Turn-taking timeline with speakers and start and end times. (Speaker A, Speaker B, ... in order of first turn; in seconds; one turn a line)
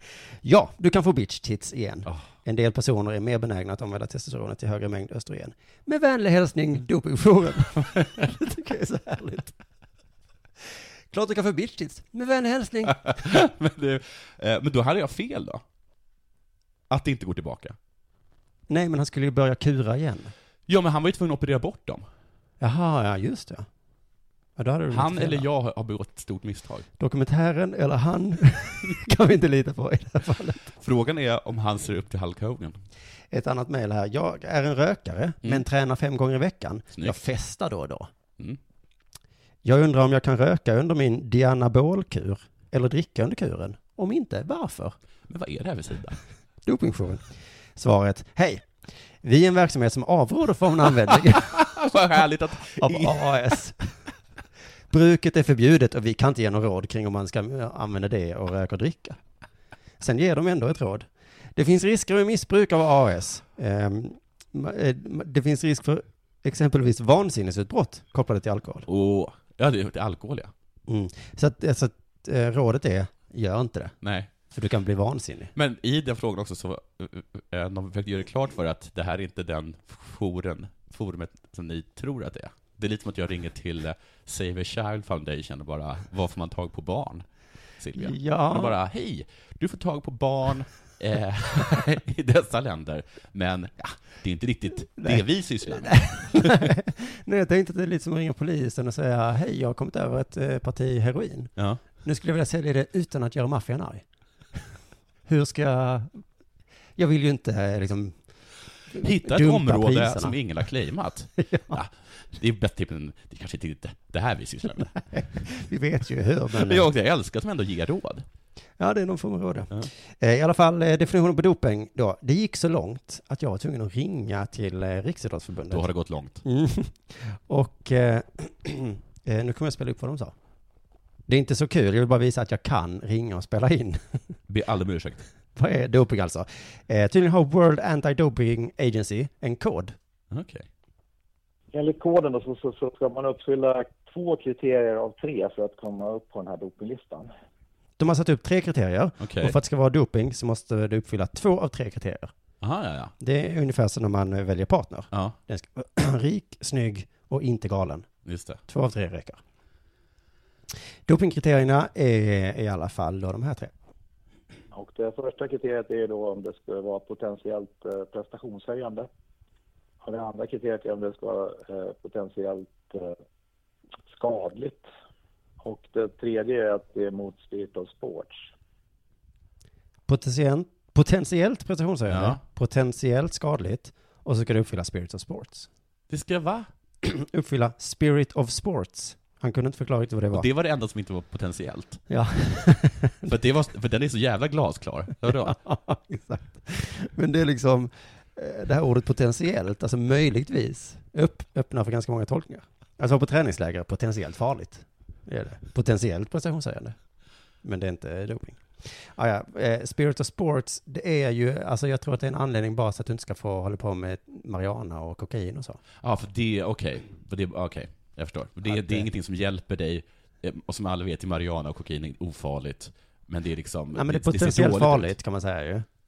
Speaker A: 0.4-9.6
Speaker A: 11.1-13.4
Speaker B: 12.9-15.6
Speaker B: 16.9-17.8
Speaker A: 18.7-20.3
Speaker B: 20.7-22.1
Speaker A: 22.6-23.7
Speaker A: 24.6-25.5
Speaker B: 24.9-26.9
Speaker A: 27.0-30.7
Speaker B: 30.8-32.8
Speaker A: 33.3-38.1
Speaker A: 39.6-45.0
Speaker B: 45.3-46.2
Speaker A: 46.6-47.2
Speaker A: 47.8-48.7
Speaker A: 49.2-51.7
Speaker B: 51.5-53.4
Speaker A: 52.8-53.9
Speaker A: 54.9-59.2
Speaker A: 60.0-68.9
Speaker B: 68.9-70.5
Speaker A: 70.9-74.0
Speaker B: 74.0-74.3
Speaker A: 74.5-75.5
Speaker B: 75.5-87.2
Speaker B: 87.8-96.7
Speaker A: 88.0-88.8
Speaker A: 95.0-104.0
Speaker A: 105.3-106.2
Speaker A: 107.0-108.2
Speaker A: 108.9-110.4
Speaker B: 109.0-115.0
Speaker A: 111.4-111.8
Speaker A: 115.1-116.9
Speaker B: 116.5-118.3
Speaker A: 118.8-125.9
Speaker B: 125.7-126.4
Speaker A: 126.4-130.3
Speaker A: 131.3-134.2
Speaker B: 134.5-135.2
Speaker A: 135.6-140.0
Speaker B: 140.3-140.7
Speaker C: 141.7-147.3
Speaker A: 148.0-152.3
Speaker B: 149.2-149.6
Speaker B: 152.6-153.1
Speaker A: 153.2-158.1
Speaker B: 158.3-158.6
Speaker A: 158.7-159.4
Speaker A: 161.1-163.7
Speaker C: 164.7-169.1
Speaker C: 170.0-173.2
Speaker C: 174.1-174.9
Speaker C: 175.6-178.5
Speaker A: 180.1-185.7
Speaker B: 182.1-182.4
Speaker B: 186.1-186.7
Speaker A: 187.0-190.5
Speaker B: 190.3-192.0
Speaker A: 192.1-193.3
Speaker B: 193.2-195.6
Speaker A: 195.3-207.0
Speaker A: 207.6-215.8
Speaker B: 216.0-225.1
Speaker A: 218.7-219.1
Speaker A: 223.9-225.9